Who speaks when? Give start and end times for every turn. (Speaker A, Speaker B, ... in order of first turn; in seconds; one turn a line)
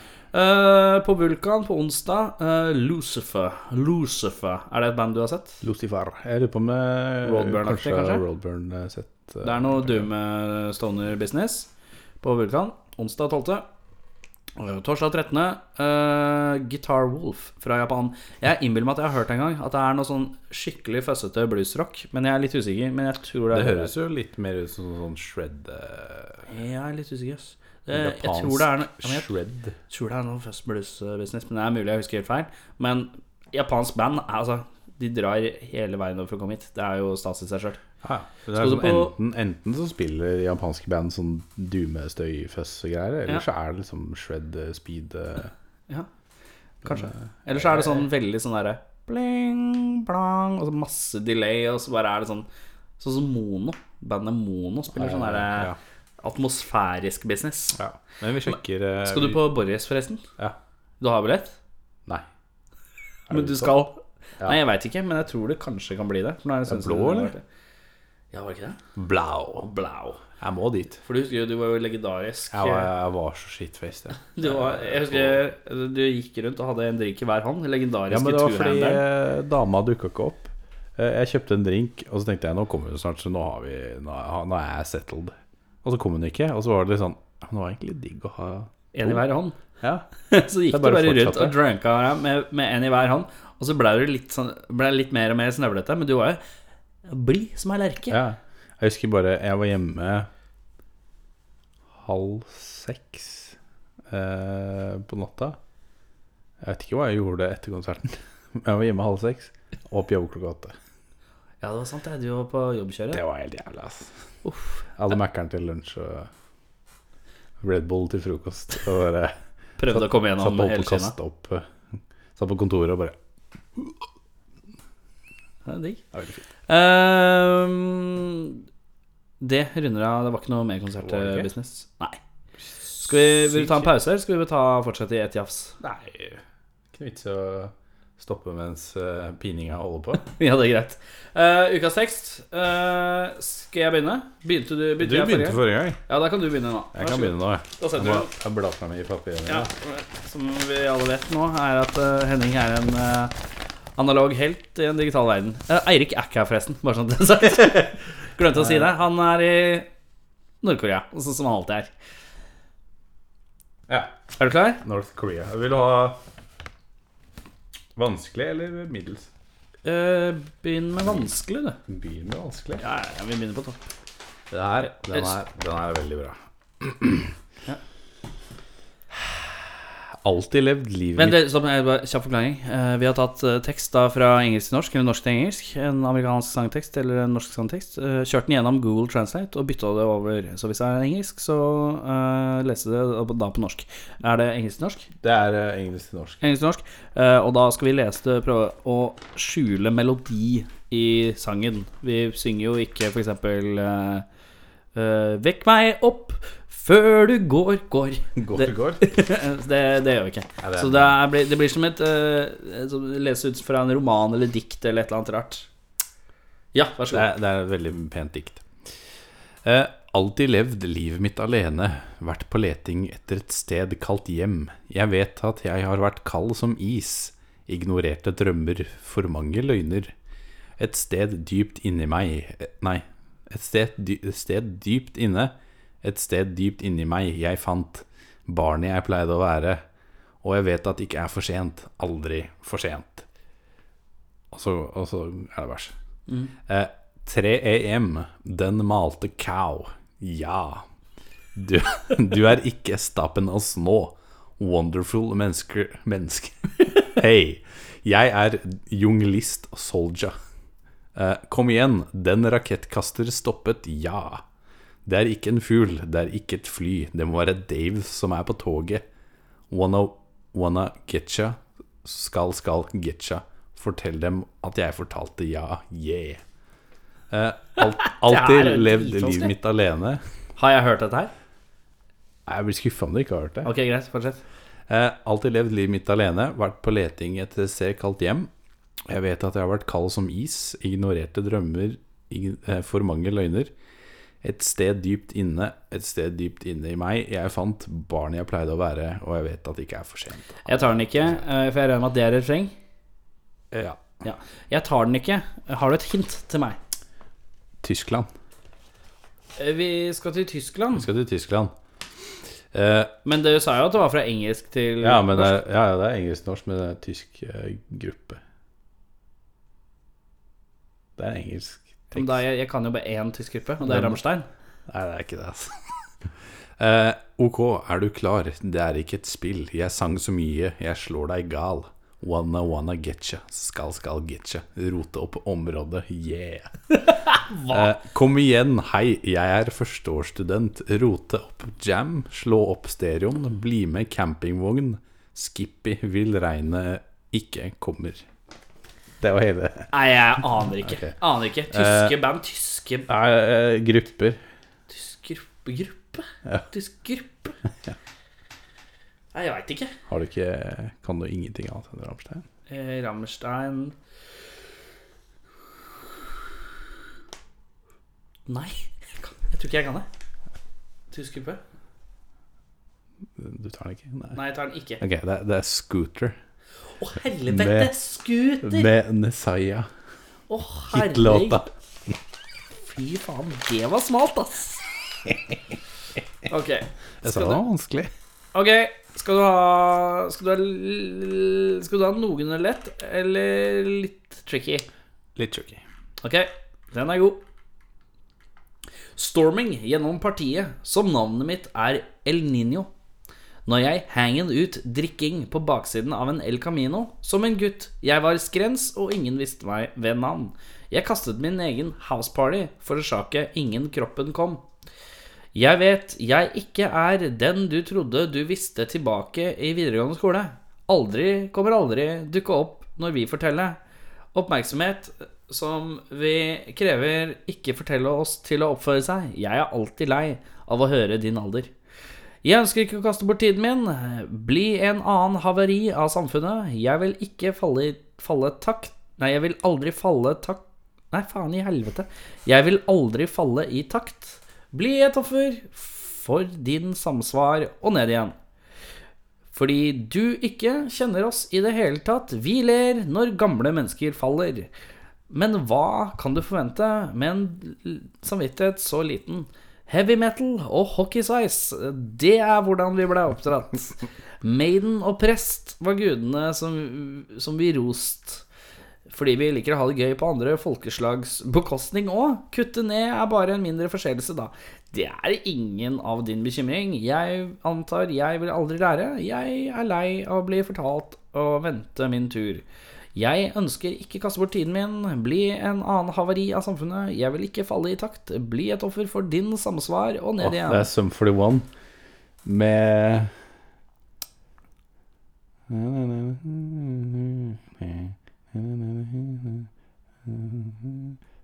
Speaker A: 0.3-5.6
Speaker B: 5.6-10.1
Speaker A: 7.2-8.2
Speaker A: 9.4-11.7
Speaker A: 12.2-13.7
Speaker A: 14.6-23.9
Speaker B: 23.5-26.4
Speaker A: 26.5-29.3
Speaker B: 27.9-29.7
Speaker A: 29.9-37.8
Speaker B: 38.0-45.5
Speaker A: 38.5-39.1
Speaker A: 46.8-52.5
Speaker B: 46.9-48.0
Speaker A: 53.0-57.8
Speaker B: 54.9-55.8
Speaker B: 57.8-59.4
Speaker A: 59.0-60.2
Speaker A: 61.0-61.5
Speaker B: 63.3-63.9
Speaker A: 63.3-67.4
Speaker B: 66.7-67.3
Speaker A: 68.3-68.8
Speaker B: 69.0-69.7
Speaker A: 69.6-70.2
Speaker B: 70.4-71.0
Speaker A: 71.0-72.9
Speaker B: 72.5-75.4
Speaker A: 74.3-79.0
Speaker B: 78.1-89.2
Speaker A: 88.9-89.5
Speaker A: 90.3-96.4
Speaker B: 90.7-91.5
Speaker A: 97.1-98.2
Speaker B: 98.1-100.3
Speaker B: 102.0-103.5
Speaker B: 104.1-105.6
Speaker B: 106.6-110.7
Speaker A: 111.6-113.2
Speaker B: 113.1-114.1
Speaker A: 114.4-114.9
Speaker B: 115.0-116.3
Speaker B: 117.6-119.3
Speaker A: 119.8-121.1
Speaker B: 119.9-121.7
Speaker B: 122.3-123.1
Speaker A: 125.6-126.0
Speaker B: 126.1-126.4
Speaker A: 126.7-128.6
Speaker A: 129.4-132.2
Speaker B: 131.0-131.5
Speaker B: 132.9-133.9
Speaker A: 132.9-135.8
Speaker B: 135.8-136.4
Speaker B: 136.9-140.3
Speaker A: 140.2-148.3
Speaker B: 145.0-146.0
Speaker B: 146.9-149.7
Speaker A: 149.5-153.3
Speaker A: 154.0-159.9
Speaker B: 158.6-158.8
Speaker A: 160.6-161.9
Speaker A: 164.4-164.8
Speaker B: 164.8-166.2
Speaker B: 167.9-169.3
Speaker A: 169.8-171.8
Speaker B: 171.9-172.8
Speaker A: 172.8-173.8
Speaker B: 174.5-177.3
Speaker A: 174.9-175.3
Speaker B: 180.2-181.4
Speaker A: 181.2-195.1
Speaker B: 195.2-196.4
Speaker A: 196.4-204.2
Speaker A: 204.9-215.7
Speaker B: 208.3-209.0
Speaker B: 210.6-211.2
Speaker A: 216.7-217.3
Speaker B: 217.1-218.6
Speaker B: 219.6-230.1
Speaker B: 230.8-239.8
Speaker B: 240.4-243.2
Speaker B: 244.5-245.9
Speaker A: 246.3-246.5
Speaker B: 246.7-250.8
Speaker B: 251.5-260.3
Speaker B: 261.1-264.4
Speaker B: 265.0-269.0
Speaker B: 269.7-276.4
Speaker B: 277.3-280.2
Speaker A: 278.0-279.5
Speaker A: 280.6-281.3
Speaker B: 282.4-283.7
Speaker A: 283.6-284.4
Speaker B: 284.9-288.5
Speaker B: 289.1-293.7
Speaker B: 294.4-301.4
Speaker A: 300.6-302.7
Speaker B: 303.7-304.0
Speaker A: 304.2-306.8
Speaker B: 307.8-308.3
Speaker A: 309.6-311.1
Speaker B: 310.9-311.7
Speaker B: 312.7-313.1
Speaker A: 313.2-315.6
Speaker B: 315.0-318.4
Speaker B: 321.2-322.4
Speaker A: 322.1-324.5
Speaker B: 323.8-324.2
Speaker B: 324.9-325.7
Speaker B: 326.8-336.8
Speaker A: 337.3-337.9
Speaker B: 337.7-348.2
Speaker B: 349.2-349.9
Speaker A: 349.9-353.1
Speaker B: 350.8-351.1
Speaker B: 351.7-352.1
Speaker B: 353.1-354.4
Speaker A: 354.9-357.5
Speaker A: 359.3-359.9
Speaker B: 360.1-362.4
Speaker A: 362.7-363.9
Speaker A: 368.5-370.1
Speaker A: 371.1-371.6
Speaker B: 373.4-374.4
Speaker A: 374.3-375.0
Speaker B: 375.0-376.4
Speaker A: 377.0-378.9
Speaker B: 377.5-377.9
Speaker B: 378.6-379.9
Speaker A: 380.5-381.6
Speaker B: 380.9-381.7
Speaker A: 382.9-384.9
Speaker A: 386.5-387.6
Speaker B: 387.2-388.1
Speaker A: 388.5-394.9
Speaker B: 395.4-395.8
Speaker A: 396.2-397.4
Speaker A: 399.1-402.9
Speaker A: 403.6-414.6
Speaker A: 415.5-423.8
Speaker A: 424.3-431.7
Speaker A: 432.4-448.3
Speaker A: 449.5-454.7
Speaker A: 455.3-468.4
Speaker A: 469.1-482.6
Speaker A: 483.1-490.9
Speaker B: 490.4-491.7
Speaker B: 492.4-493.3
Speaker B: 495.7-499.7
Speaker B: 500.2-501.1